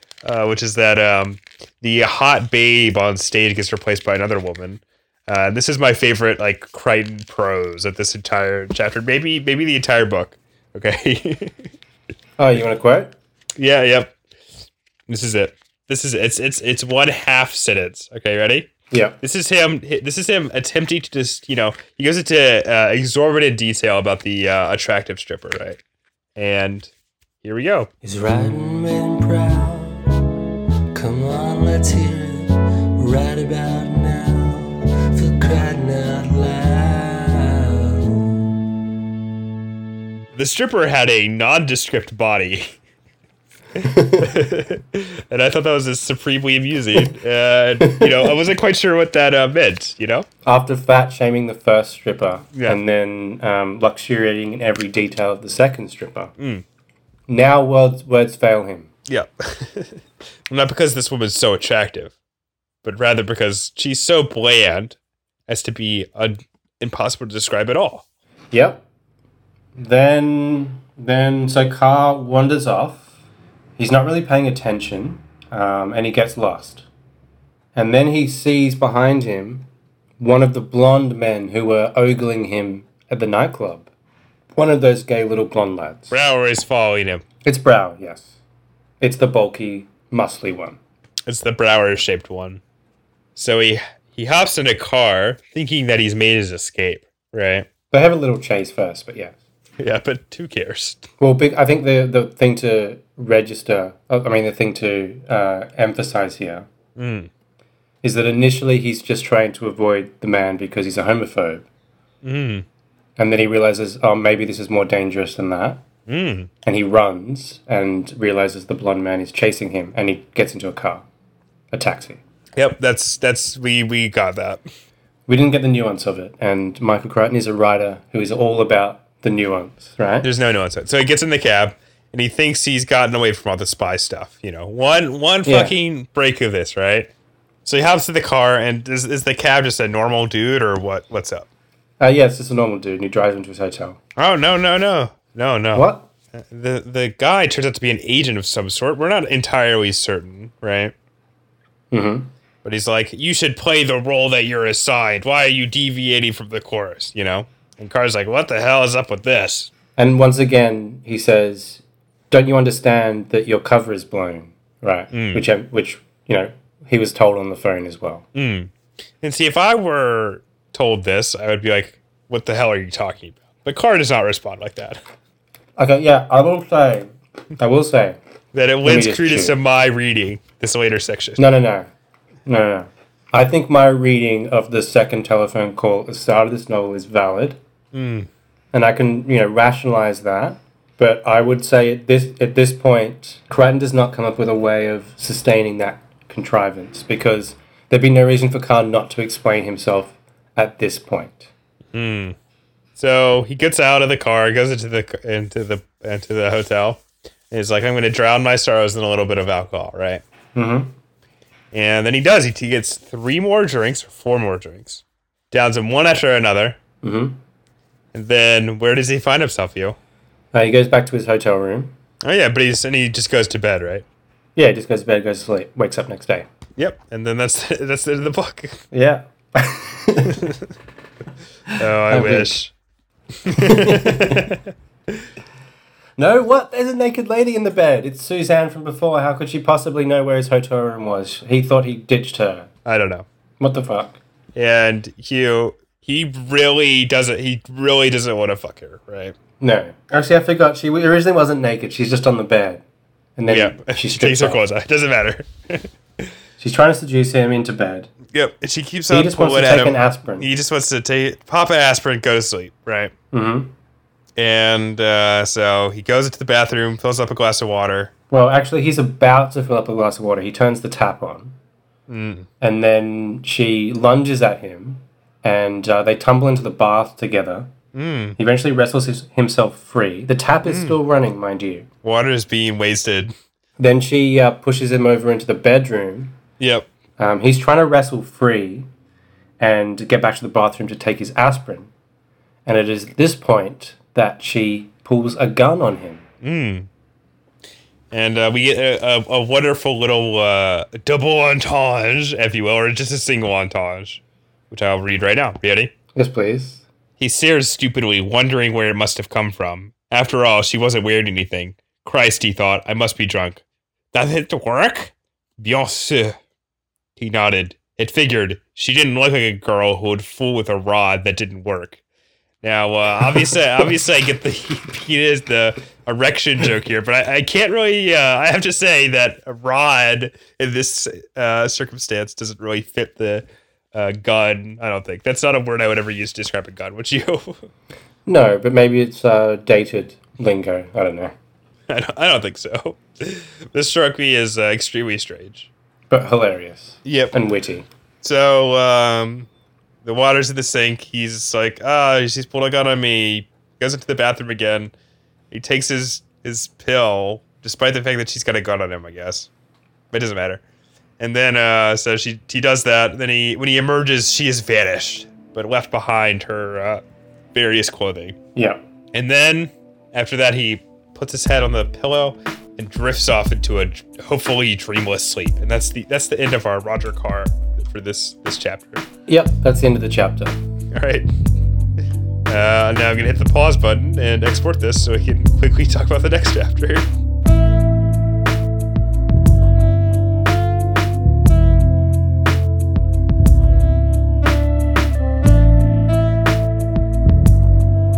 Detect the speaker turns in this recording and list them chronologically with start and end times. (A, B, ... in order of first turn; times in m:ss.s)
0:00.2-0:11.6 A
0:12.4-0:13.1 B
0:13.6-0:14.2 A
0:15.1-0:18.7 A
0:18.9-0:19.2 B
0:19.2-0:25.8 A
0:26.4-0:26.9 A
0:27.4-0:27.9 A
0:28.0-0:30.3 C
0:30.9-0:38.5 C
0:40.3-0:42.8 A
0:43.8-0:50.2 A
0:43.8-0:44.4 B
0:47.8-0:48.1 B
0:50.4-0:56.3 B
0:52.5-0:52.8 A
0:56.4-0:56.6 A
0:57.3-0:58.9 B
0:59.1-1:02.1 A
1:02.8-1:05.0 A
1:05.5-1:08.0 A
1:08.5-1:08.8 B
1:09.7-1:13.1 B
1:13.8-1:16.8 B
1:17.7-1:19.7 B
1:20.2-1:23.9 B
1:24.5-1:26.2 B
1:26.1-1:27.2 A
1:27.4-1:28.3 B
1:29.0-1:30.8 B
1:31.2-1:32.6 A
1:33.4-1:37.7 A
1:37.9-1:39.4 B
1:39.8-1:41.1 A
1:41.2-1:46.7 B
1:47.0-1:47.3 A
1:48.0-1:51.6 B
1:52.2-1:52.6 A
1:53.2-1:55.8 B
1:56.1-1:56.5 A
1:56.6-2:01.0 B
2:01.7-2:02.2 B
2:02.6-2:04.6 A
2:05.3-2:10.3 B
2:10.2-2:17.1 A
2:15.4-2:15.7 B
2:17.6-2:21.5 A
2:22.0-2:24.0 B
2:24.2-2:30.9 A
2:25.7-2:26.0 B
2:31.9-2:32.3 B
2:32.6-2:39.7 A
2:40.0-2:48.2 B
2:45.1-2:45.5 A
2:48.3-2:55.0 A
2:55.8-2:58.2 B
2:58.5-3:01.4 A
2:58.8-2:59.6 B
3:01.4-3:01.9 B
3:02.4-3:07.6 B
3:07.9-3:08.3 A
3:08.7-3:21.5 B
3:21.9-3:22.4 A
3:23.0-3:30.2 A
3:30.5-3:30.9 B
3:31.7-3:36.8 A
3:37.0-3:37.4 B
3:38.1-3:40.0 A
3:40.5-3:41.9 B
3:42.2-3:44.0 A
3:44.6-3:46.5 B
3:46.8-3:48.8 A
3:48.9-3:50.4 B
3:50.3-3:50.7 A
3:51.7-3:52.5 B
3:51.8-3:52.7 A
3:53.4-3:55.3 A
3:53.5-3:54.5 B
3:56.2-4:02.7 B
4:02.8-4:03.2 A
4:03.6-4:04.2 B
4:04.5-4:09.3 A
4:09.6-4:12.8 B
4:13.4-4:14.6 B
4:13.5-4:16.3 A
4:16.6-4:18.1 B
4:18.3-4:23.1 A
4:19.1-4:20.5 B
4:23.3-4:23.7 B
4:24.4-4:28.1 A
4:28.3-4:31.6 B
4:32.1-4:32.5 A
4:32.6-4:37.7 B
4:37.9-4:38.4 A
4:38.4-4:41.9 B
4:40.7-4:41.0 A
4:42.0-4:43.3 A
4:43.8-4:46.4 B
4:46.6-4:46.9 A
4:47.2-4:48.9 B
4:49.6-4:51.9 B
4:52.6-4:56.2 B
4:56.4-4:56.9 A
4:58.1-5:05.9 A
5:06.1-5:06.8 B
5:07.2-5:16.4 A
5:17.2-5:22.0 A
5:22.6-5:37.7 A
5:38.2-5:41.3 B
5:41.9-5:45.7 A
5:46.1-5:47.9 B
5:47.0-5:47.3 A
5:48.2-5:49.5 A
5:50.0-5:54.9 A
5:55.5-5:59.5 A
6:00.1-6:00.6 A
6:01.2-6:08.4 A
6:08.5-6:08.8 B
6:09.1-6:19.0 A
6:19.3-6:20.6 B
6:20.9-6:21.3 A
6:22.5-6:27.0 A